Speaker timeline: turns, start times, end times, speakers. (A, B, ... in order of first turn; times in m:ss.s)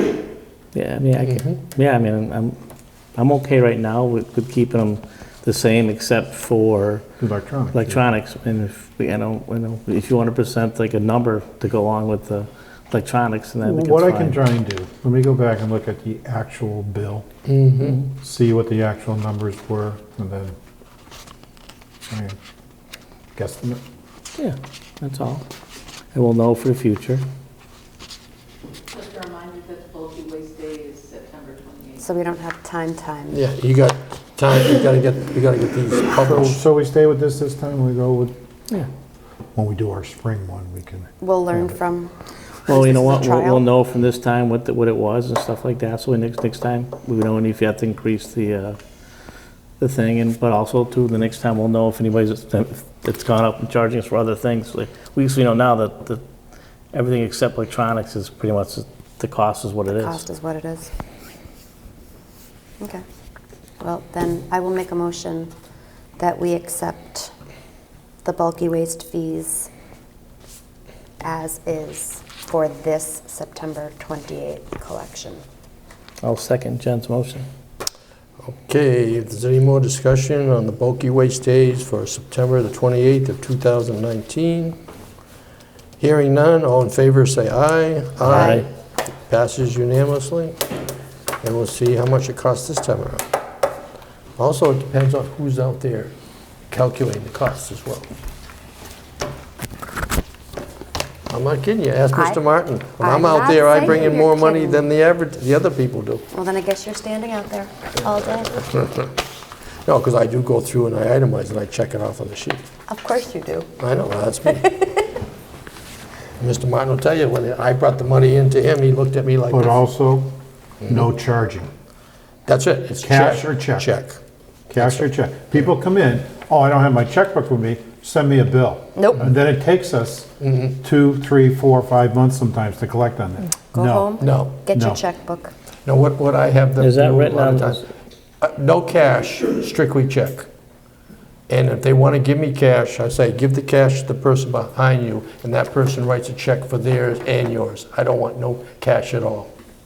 0:00.7-0:02.6 A
0:01.2-0:01.6 B
0:03.2-0:07.0 A
0:07.2-0:08.1 C
0:07.7-0:14.4 A
0:13.6-0:17.3 C
0:17.4-0:18.0 B
0:18.0-0:20.5 C
0:22.1-0:22.4 C
0:23.3-0:23.8 C
0:24.4-0:25.4 A
0:26.1-0:27.2 A
0:29.0-0:31.9 D
0:32.0-0:33.4 E
0:33.3-0:36.6 B
0:36.1-0:38.3 C
0:39.5-0:41.1 C
0:41.2-0:42.1 E
0:42.6-0:48.8 A
0:42.7-0:43.6 E
0:49.8-0:56.2 A
0:56.9-1:00.3 A
0:59.9-1:00.9 E
1:03.8-1:05.5 E
1:06.2-1:07.3 E
1:08.2-1:09.7 E
1:11.2-1:15.4 E
1:16.2-1:17.4 A
1:18.4-1:24.8 B
1:26.0-1:28.7 B
1:28.2-1:28.6 A
1:28.3-1:28.6 E
1:29.3-1:30.6 B
1:31.4-1:33.2 B
1:34.4-1:36.1 B
1:36.7-1:38.1 B
1:41.3-1:46.2 B
1:42.1-1:42.4 E
1:43.0-1:44.9 E
1:46.3-1:48.6 E
1:48.5-1:49.1 B
1:49.8-1:52.6 B
1:52.9-1:53.7 E
1:53.8-1:54.6 B
1:54.5-1:55.0 E
1:56.4-1:59.8 B
1:59.5-2:00.3 C
2:00.8-2:01.7 C
2:02.5-2:04.2 B
2:03.0-2:03.9 C
2:04.7-2:14.2 C
2:04.8-2:05.1 B
2:09.0-2:09.2 E
2:10.4-2:10.8 B
2:13.7-2:15.5 E
2:14.2-2:14.6 B
2:14.7-2:15.0 C
2:15.8-2:17.8 B
2:16.8-2:17.8 A
2:18.4-2:20.5 B
2:21.5-2:29.5 B